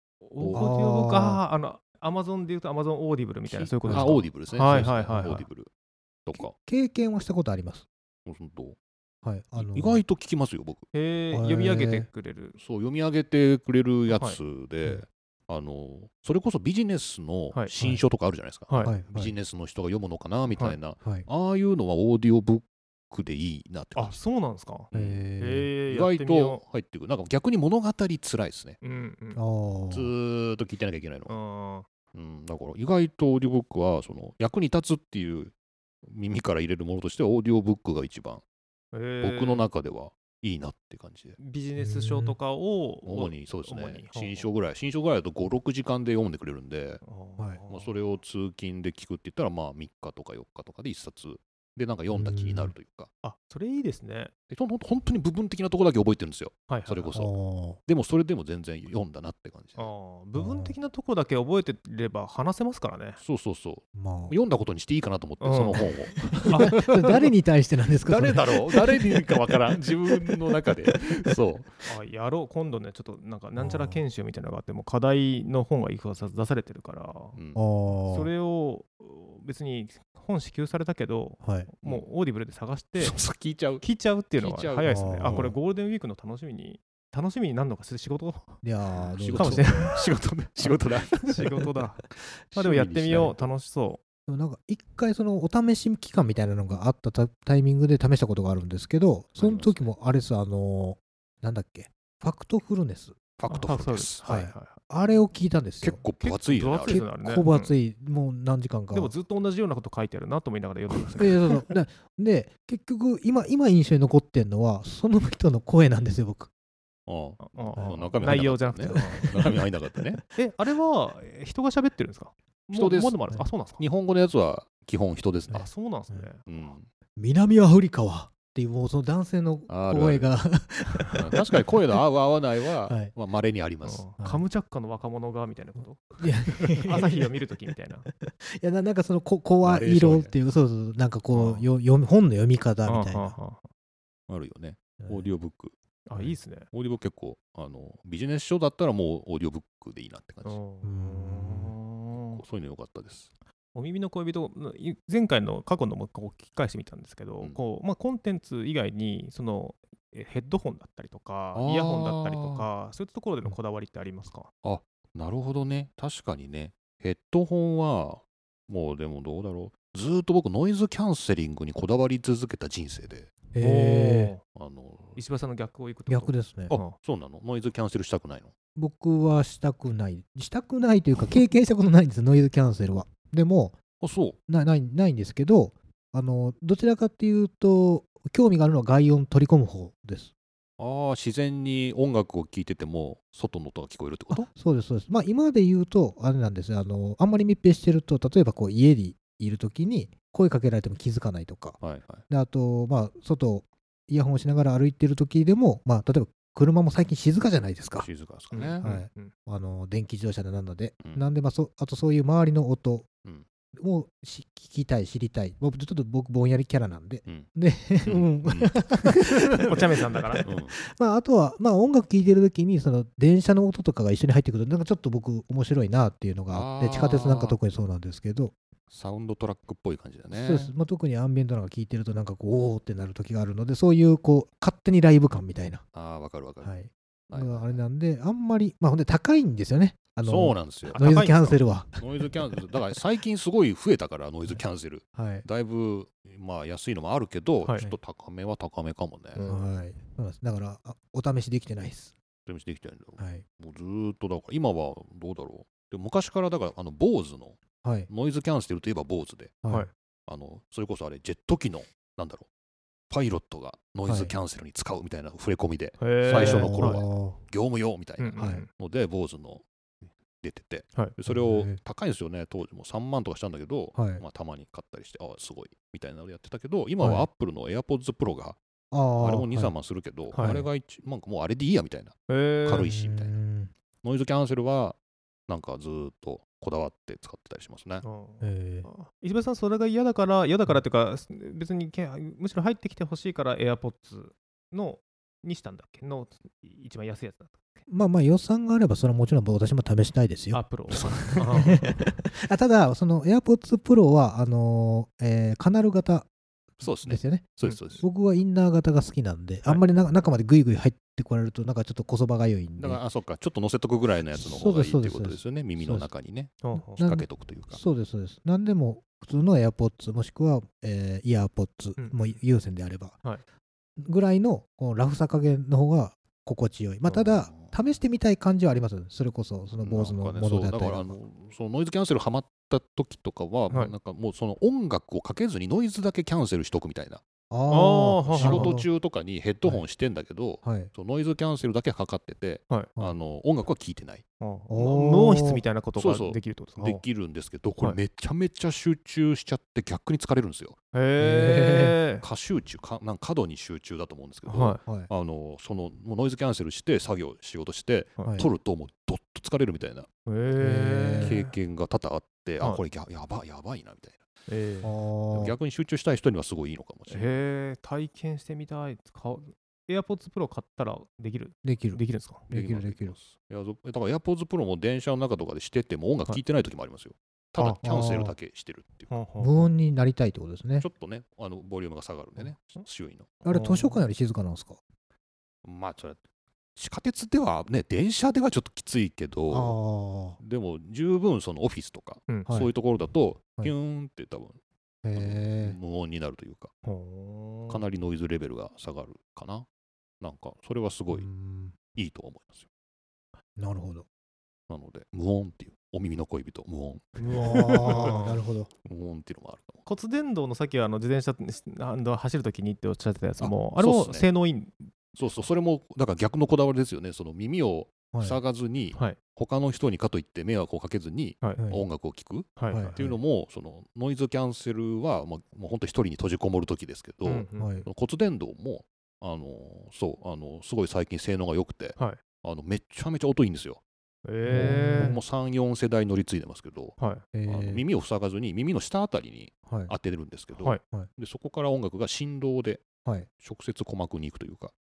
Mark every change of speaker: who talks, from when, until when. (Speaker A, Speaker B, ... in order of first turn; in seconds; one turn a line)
Speaker A: 0.2-5.4
Speaker B: 0.4-0.6
Speaker C: 0.5-1.4
Speaker B: 3.5-5.7
Speaker C: 3.9-4.2
Speaker B: 6.2-6.5
Speaker C: 6.3-7.8
Speaker B: 8.2-8.8
Speaker C: 9.2-10.0
Speaker B: 9.6-10.9
Speaker A: 10.9-12.6
Speaker C: 11.3-12.1
Speaker B: 12.6-24.2
Speaker A: 14.1-14.4
Speaker A: 18.7-18.9
Speaker C: 18.8-19.3
Speaker A: 23.9-26.6
Speaker B: 24.9-25.2
Speaker C: 24.9-25.7
Speaker B: 25.9-28.8
Speaker A: 28.8-29.4
Speaker C: 29.4-30.1
Speaker B: 29.9-31.3
Speaker A: 31.3-31.9
Speaker B: 32.1-35.5
Speaker B: 36.0-38.4
Speaker A: 38.9-39.6
Speaker B: 39.2-41.4
Speaker A: 41.4-44.5
Speaker C: 41.8-42.3
Speaker B: 43.0-47.0
Speaker A: 47.0-47.9
Speaker B: 47.7-53.1
Speaker C: 52.1-52.7
Speaker A: 53.2-54.3
Speaker B: 54.5-57.3
Speaker A: 56.7-57.2
Speaker C: 57.1-57.8
Speaker B: 57.9-59.9
Speaker A: 59.8-63.2
Speaker C: 60.4-60.7
Speaker B: 63.2-67.2
Speaker C: 63.9-64.3
Speaker A: 65.4-65.9
Speaker C: 65.7-69.3
Speaker A: 66.4-66.8
Speaker B: 68.0-71.8
Speaker A: 71.8-77.3
Speaker C: 73.5-74.0
Speaker B: 77.3-77.6
Speaker C: 77.5-78.3
Speaker A: 78.1-83.2
Speaker C: 81.4-81.7
Speaker B: 83.0-83.8
Speaker A: 83.8-88.6
Speaker B: 84.4-85.5
Speaker C: 84.8-85.5
Speaker C: 88.6-89.9
Speaker B: 89.0-91.5
Speaker A: 89.3-90.0
Speaker A: 91.2-94.0
Speaker B: 92.5-93.4
Speaker C: 94.3-103.2
Speaker B: 99.4-99.9
Speaker B: 103.4-104.2
Speaker A: 103.5-104.8
Speaker C: 104.2-106.0
Speaker B: 105.8-107.0
Speaker A: 106.2-107.7
Speaker C: 106.9-109.1
Speaker A: 108.9-111.6
Speaker C: 111.2-116.5
Speaker B: 117.1-120.2
Speaker A: 117.4-119.3
Speaker C: 117.7-119.6
Speaker A: 120.3-123.8
Speaker B: 122.7-123.2
Speaker B: 123.7-125.7
Speaker A: 125.5-126.4
Speaker B: 126.5-126.9
Speaker C: 127.2-131.6
Speaker B: 129.7-130.3
Speaker B: 131.2-134.0
Speaker C: 132.9-133.1
Speaker A: 133.8-138.1
Speaker C: 136.2-137.3
Speaker C: 138.2-143.3
Speaker B: 139.6-140.3
Speaker A: 141.3-141.7
Speaker A: 142.8-143.7
Speaker B: 144.3-145.7
Speaker C: 145.0-145.3
Speaker A: 146.1-146.7
Speaker B: 146.7-150.6
Speaker A: 150.4-152.4
Speaker C: 150.8-151.8
Speaker B: 152.3-153.3
Speaker A: 153.7-164.5
Speaker B: 161.5-162.7
Speaker B: 164.6-173.3
Speaker C: 173.5-174.3
Speaker A: 173.6-174.4
Speaker B: 174.5-175.2
Speaker A: 175.2-176.9
Speaker C: 176.1-176.8
Speaker B: 176.7-178.5
Speaker C: 178.8-183.8
Speaker B: 184.0-184.4
Speaker C: 184.5-190.3
Speaker B: 190.8-194.5
Speaker C: 194.3-208.1
Speaker B: 201.8-202.2
Speaker B: 208.0-208.8
Speaker A: 208.5-209.3
Speaker C: 208.8-213.1
Speaker B: 211.0-211.2
Speaker C: 213.7-219.7
Speaker B: 218.0-219.7
Speaker A: 219.6-220.5
Speaker C: 220.3-228.5
Speaker B: 220.4-220.8
Speaker B: 226.5-227.6
Speaker B: 228.9-230.7
Speaker C: 230.3-235.8
Speaker B: 235.9-236.7
Speaker C: 236.6-242.6
Speaker B: 237.3-237.8
Speaker B: 240.2-249.4
Speaker A: 240.9-241.6
Speaker C: 245.1-245.4
Speaker A: 247.6-247.9
Speaker A: 249.3-249.7
Speaker C: 249.4-252.1
Speaker B: 252.5-259.6
Speaker C: 253.2-253.4
Speaker C: 257.8-258.1
Speaker B: 260.3-262.5
Speaker B: 263.1-269.6
Speaker C: 264.1-264.3
Speaker A: 266.0-267.0
Speaker C: 266.3-267.4
Speaker A: 268.2-268.7
Speaker C: 268.4-268.6
Speaker B: 270.4-278.6
Speaker C: 271.3-271.8
Speaker C: 273.9-274.2
Speaker C: 277.0-277.3
Speaker C: 278.9-279.7
Speaker B: 279.2-283.3
Speaker A: 280.3-280.6
Speaker C: 280.4-280.7
Speaker A: 282.3-282.9
Speaker C: 282.8-283.7
Speaker B: 284.0-285.0
Speaker B: 285.5-288.0
Speaker A: 288.0-297.8
Speaker C: 288.4-288.9
Speaker C: 297.9-306.3
Speaker A: 300.5-302.0
Speaker B: 306.8-308.0
Speaker C: 307.0-313.0
Speaker A: 307.6-307.9
Speaker B: 312.8-317.8
Speaker C: 314.3-316.1
Speaker A: 316.6-317.0
Speaker C: 316.8-323.2
Speaker A: 322.0-322.3
Speaker C: 324.0-331.1
Speaker B: 327.2-327.7
Speaker B: 329.8-337.2
Speaker C: 337.5-338.9
Speaker A: 337.7-338.8
Speaker B: 338.3-344.2
Speaker C: 340.6-340.9
Speaker A: 344.4-347.0
Speaker C: 344.7-345.6
Speaker B: 345.9-350.8
Speaker A: 350.9-352.2
Speaker C: 351.2-351.9
Speaker B: 352.2-360.1
Speaker A: 354.5-354.8
Speaker A: 360.2-361.5
Speaker C: 360.6-361.4
Speaker B: 361.2-364.2
Speaker A: 364.5-364.9
Speaker C: 364.8-365.6
Speaker B: 365.3-367.3
Speaker A: 367.1-372.4
Speaker C: 371.6-373.1
Speaker B: 372.5-379.1
Speaker C: 377.7-378.3
Speaker A: 379.1-379.7
Speaker C: 379.4-380.9
Speaker B: 380.8-383.4
Speaker C: 383.4-384.8
Speaker A: 383.5-384.0
Speaker B: 385.6-386.2
Speaker B: 386.8-389.8
Speaker C: 389.5-390.4
Speaker B: 390.4-394.6
Speaker C: 392.5-392.7
Speaker C: 395.0-395.8
Speaker B: 395.1-396.7
Speaker A: 396.8-397.8
Speaker B: 397.7-399.7
Speaker B: 400.2-401.3
Speaker C: 401.1-401.8
Speaker B: 401.9-402.7
Speaker C: 403.6-404.1
Speaker B: 404.7-407.1
Speaker A: 407.2-408.4
Speaker C: 407.2-408.7
Speaker B: 407.8-408.1
Speaker B: 408.8-409.8
Speaker A: 409.9-414.9
Speaker B: 413.4-414.3
Speaker B: 415.1-433.8
Speaker C: 418.1-418.4
Speaker C: 421.6-421.8
Speaker A: 422.6-423.1
Speaker C: 422.7-423.2
Speaker A: 427.2-427.8
Speaker C: 427.6-427.9
Speaker A: 434.2-435.2
Speaker C: 434.5-435.2
Speaker B: 434.5-442.9
Speaker A: 437.0-437.2
Speaker C: 437.3-437.8
Speaker C: 439.7-439.9
Speaker B: 443.4-444.7